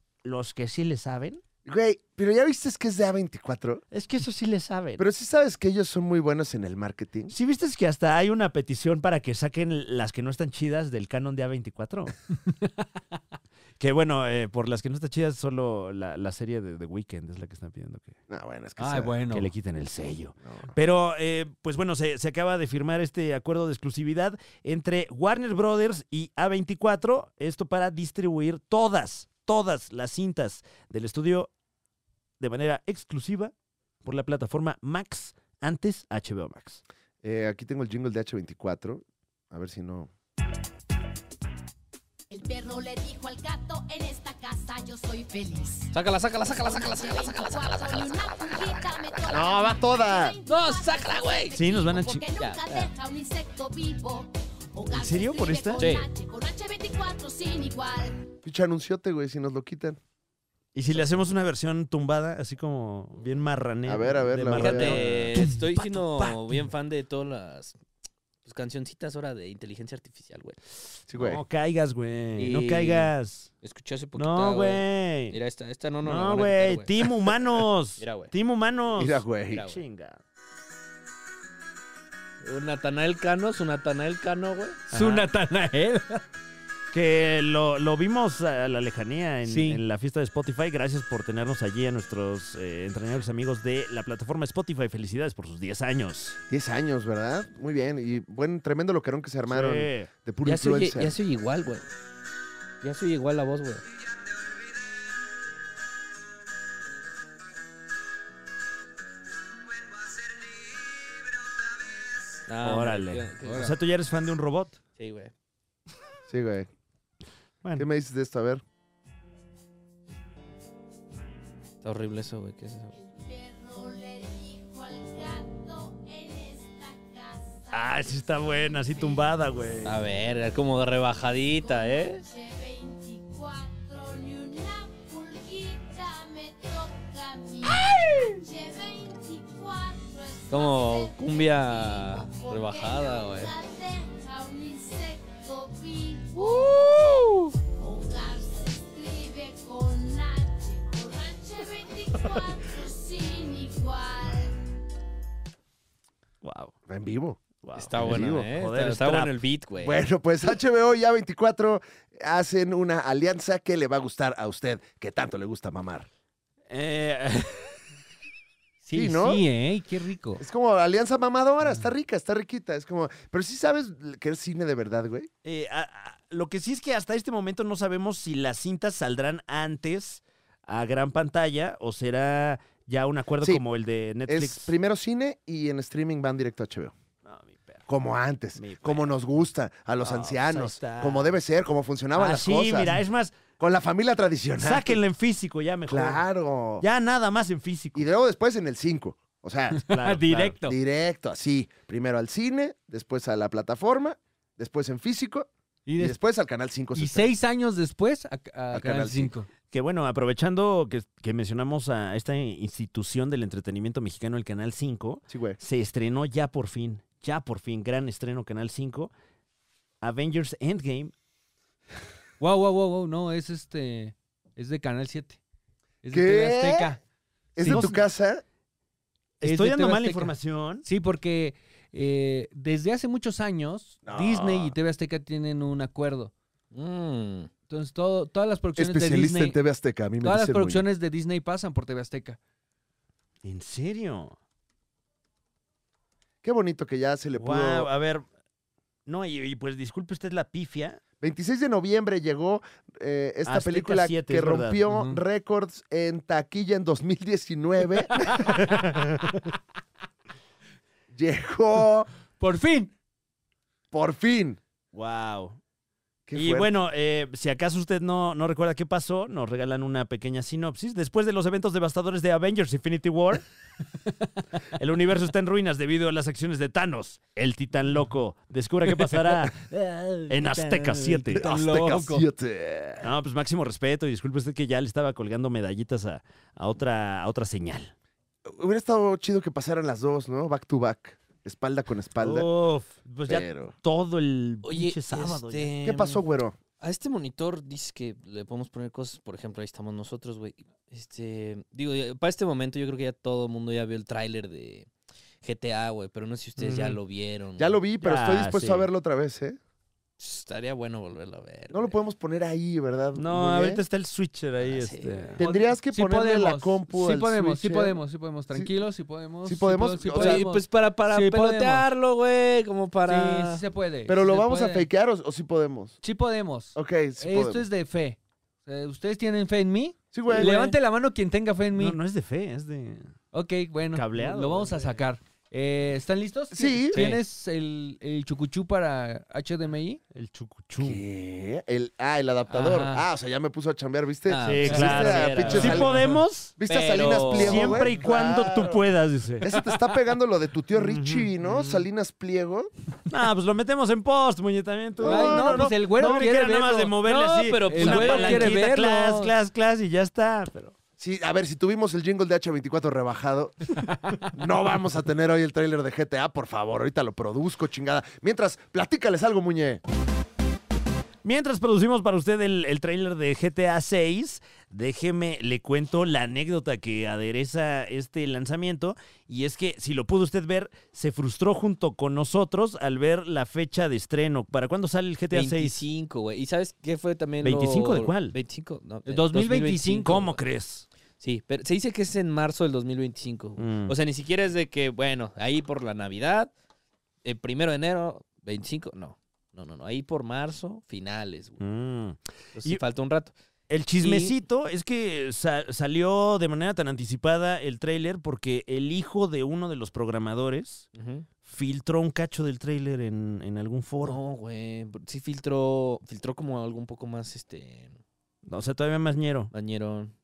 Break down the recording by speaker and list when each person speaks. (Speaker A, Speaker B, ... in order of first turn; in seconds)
Speaker A: 0.2-1.4, 3.9-5.0, 7.3-12.2, 13.8-18.2, 19.3-31.5, 32.4-36.8, 51.5-52.2, 54.9-55.9, 60.7-66.4, 71.2-73.5, 74.2-75.4, 76.0-80.2, 84.9-85.3, 86.9-96.4, 99.5-100.1, 112.6-114.8, 127.7-130.0, 156.4-156.7, 157.6-159.3, 166.7-167.8, 175.4-184.7, 187.2-187.9, 188.6-189.1, 190.0-191.4, 192.1-193.5, 194.6-196.2, 196.8-198.1, 199.9-200.6, 209.7-219.1, 220.0-221.1, 227.7-227.9, 229.4-230.8, 243.4-244.4, 247.4-248.3, 249.1-251.0, 253.4-254.8, 258.4-259.3, 264.9-265.6, 266.3-273.5, 274.7-279.6, 280.3-281.5, 283.0-287.9, 292.2-295.7, 306.6-307.0, 308.0-308.9, 313.1-315.4, 331.7-333.1, 333.9-334.8, 336.9-337.2, 340.1-341.0, 344.4-346.6, 347.1-349.5, 350.8-351.8, 353.1-360.7, 371.2-385.8, 387.4-388.4, 390.0-390.9, 393.6-393.9, 401.6-402.8, 403.7-410.9, 411.4-414.2, 418.4-419.5
Speaker B: 1.6-3.8, 5.0-7.3, 18.3-19.2, 20.4-20.7, 37.2-40.1, 49.3-50.4, 58.4-60.0, 63.9-65.2, 71.1-71.4, 78.9-79.7, 96.5-101.1, 116.3-116.7, 117.8-118.6, 156.9-157.4, 158.0-158.5, 159.8-166.1, 168.9-169.4, 170.4-175.3, 184.3-186.9, 187.9-193.0, 193.6-195.0, 195.9-196.8, 197.9-199.9, 200.6-207.3, 208.7-209.3, 215.3-215.6, 226.1-226.9, 227.6-228.4, 234.0-234.7, 238.8-240.8, 246.4-247.9, 251.2-258.5, 261.1-262.1, 263.9-264.6, 266.3-266.7, 281.3-283.1, 288.4-292.5, 293.2-293.7, 295.8-296.6, 307.6-309.6, 311.7-313.8, 315.4-318.0, 319.4-320.4, 324.1-326.0, 326.7-327.6, 330.1-330.7, 336.5-337.1, 340.8-346.0, 346.6-348.8, 349.4-352.7, 355.0-355.7, 361.0-363.6, 364.3-369.8
Speaker C: 18.8-19.5, 84.9-86.2, 89.4-89.8, 113.4-113.7, 168.8-170.4, 199.7-200.8, 205.9-206.2, 206.9-209.5, 222.4-225.4, 226.0-227.0, 227.6-227.9, 229.4-236.3, 237.7-239.6, 240.2-242.4, 254.9-255.2, 262.4-262.9, 279.0-282.2, 315.4-321.9, 323.1-324.9, 326.0-332.0, 333.3-340.0, 342.5-343.1, 355.0-357.0, 357.7-359.3, 389.1-390.3
Speaker D: 42.3-45.9, 46.6-58.2, 123.0-129.3, 131.5-154.6
Speaker E: 45.9-48.4, 50.4-51.6, 52.4-52.9, 55.8-56.1, 64.5-67.8, 68.4-70.6, 72.4-73.1, 73.6-77.3, 78.0-78.3, 79.5-79.8, 82.4-84.9, 100.4-101.9, 102.8-103.8, 112.5-113.7, 115.0-115.3, 121.8-123.0, 129.8-132.2, 137.8-138.0, 140.5-143.5, 146.5-146.7, 157.7-160.0, 236.7-237.5, 294.6-296.2, 296.8-304.9, 305.4-307.8, 310.2-311.9, 314.6-315.4, 320.1-323.6, 344.3-345.9, 346.7-347.9, 357.0-358.7, 385.3-390.4, 391.2-396.5, 397.2-401.6, 402.6-403.3, 404.0-404.3, 410.9-411.3, 414.0-418.0, 419.5-420.1